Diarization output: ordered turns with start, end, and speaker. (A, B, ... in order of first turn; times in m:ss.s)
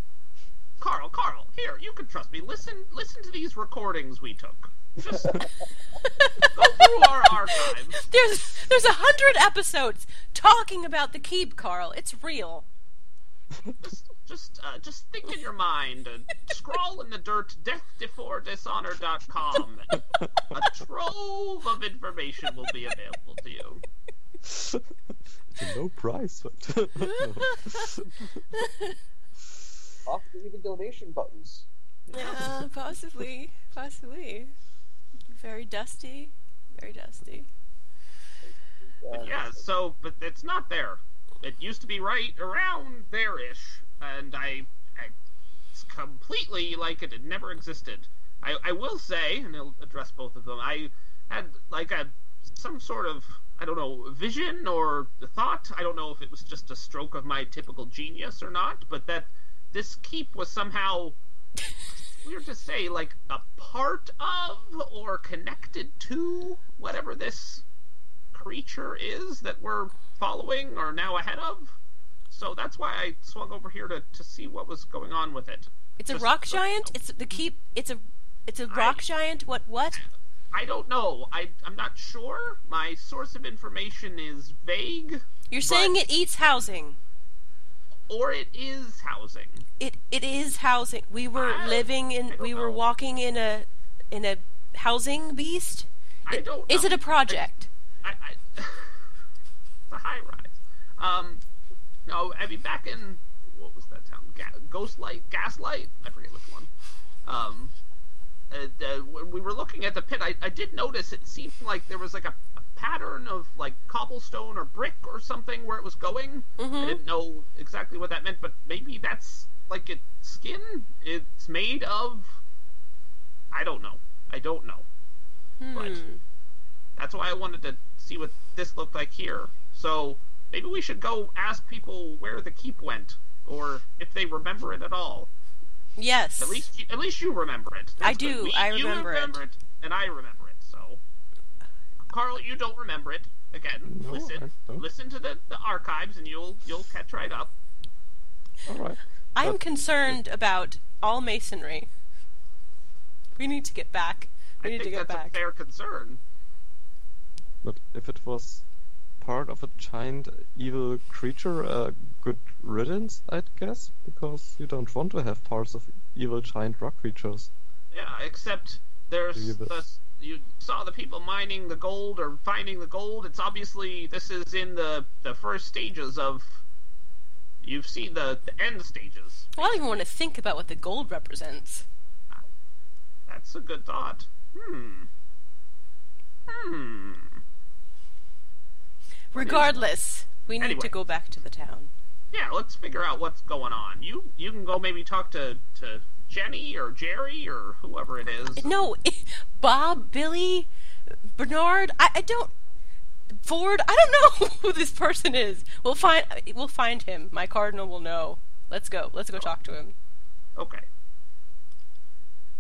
0:00.8-0:05.4 A
0:06.0-0:12.7 B
0:06.5-0:08.0 A
0:13.8-0:23.8 A
0:24.4-0:24.9 C
0:25.5-0:28.4 C
0:27.4-0:27.9 B
0:28.5-0:29.0 B
0:30.1-0:32.3 D
0:32.1-0:34.5 B
0:35.3-0:37.5 B
0:38.4-0:39.7 D
0:39.1-0:45.1 A
0:45.7-1:01.2 A
1:02.2-1:07.6 A
1:08.3-1:11.8 A
1:12.3-1:16.9 A
1:16.0-1:20.0 B
1:18.7-1:19.0 A
1:20.0-1:26.0 A
1:25.5-1:27.0 B
1:28.1-1:29.6 A
1:29.8-1:37.7 B
1:31.3-1:32.8 A
1:36.3-1:37.5 A
1:38.0-1:39.0 A
1:39.9-1:41.4 A
1:42.1-1:46.7 A
1:47.2-1:47.8 A
1:48.5-2:02.3 A
1:56.6-1:57.0 B
2:03.5-2:04.9 A
2:05.6-2:06.2 B
2:05.7-2:06.0 A
2:07.0-2:15.3 A
2:16.0-2:16.7 B
2:16.4-2:21.0 A
2:18.0-2:19.4 B
2:22.1-2:27.5 A
2:23.9-2:24.8 C
2:28.7-2:30.2 C
2:29.4-2:31.9 B
2:33.4-2:35.4 B
2:34.6-2:36.2 A
2:37.6-2:38.6 C
2:39.2-2:47.5 C
2:47.9-2:56.6 A
2:49.4-2:49.8 C
2:57.6-3:00.1 A
2:59.6-3:01.9 B
3:03.3-3:05.1 A
3:06.5-3:07.4 A
3:09.3-3:11.9 B
3:09.4-3:09.8 A
3:10.6-3:10.9 A
3:12.3-3:18.7 A
3:18.6-3:20.7 B
3:21.3-3:22.5 B
3:23.4-3:29.9 B
3:30.6-3:30.9 A